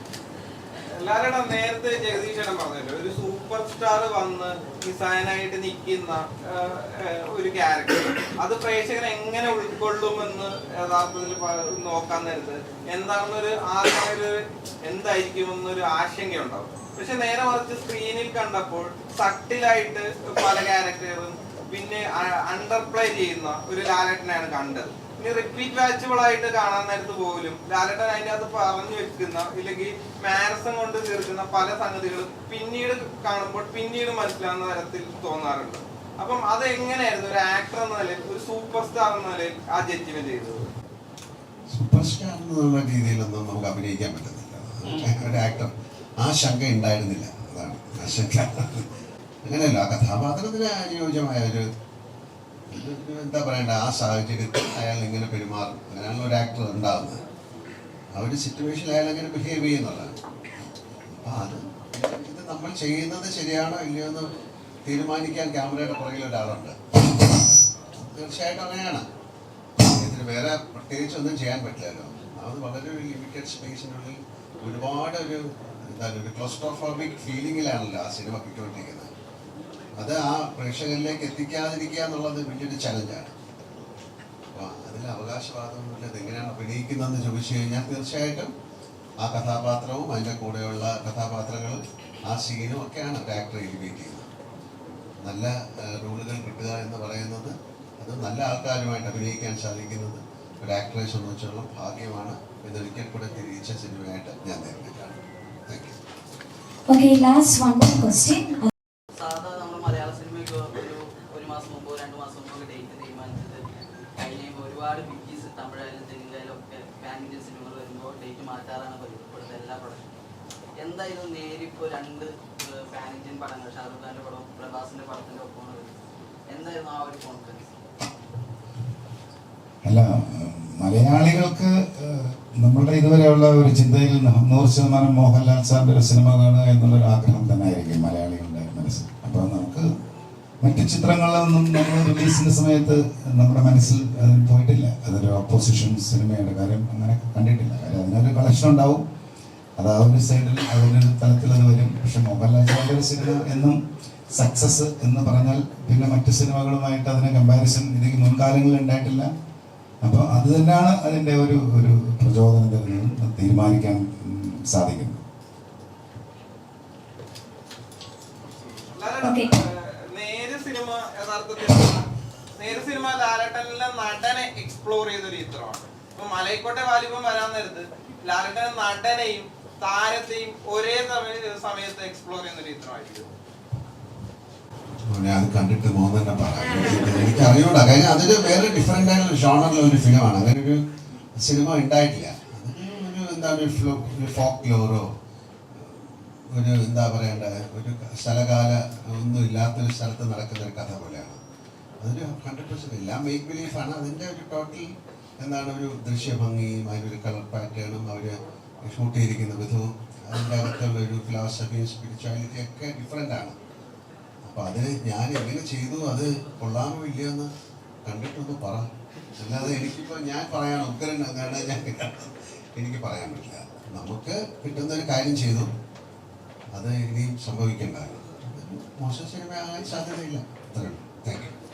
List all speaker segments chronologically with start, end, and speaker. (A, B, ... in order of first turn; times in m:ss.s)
0:01.0-0:40.6 A
0:41.7-0:48.9 B
0:49.4-0:51.6 B
0:52.7-0:57.2 B
0:58.2-1:00.2 B
1:01.3-1:04.3 B
1:04.9-1:07.3 B
1:07.9-1:09.0 B
1:09.9-1:19.1 B
1:20.0-1:23.3 B
1:24.5-1:28.5 B
1:29.2-1:34.3 B
1:35.2-1:46.0 B
1:46.9-1:48.7 C
1:49.1-2:00.1 D
2:00.8-2:07.8 D
2:09.8-2:19.9 E
2:20.6-2:29.0 E
2:29.8-2:33.8 E
2:34.3-2:39.3 E
2:40.0-2:45.2 E
2:49.0-2:52.1 A
2:49.2-2:49.5 C
2:52.6-3:03.3 A
3:05.1-3:10.8 B
3:11.4-3:15.1 B
3:15.7-3:21.4 B
3:22.0-3:24.9 B
3:25.4-3:33.6 B
3:34.4-3:37.5 B
3:38.1-3:45.7 B
3:46.7-3:51.5 B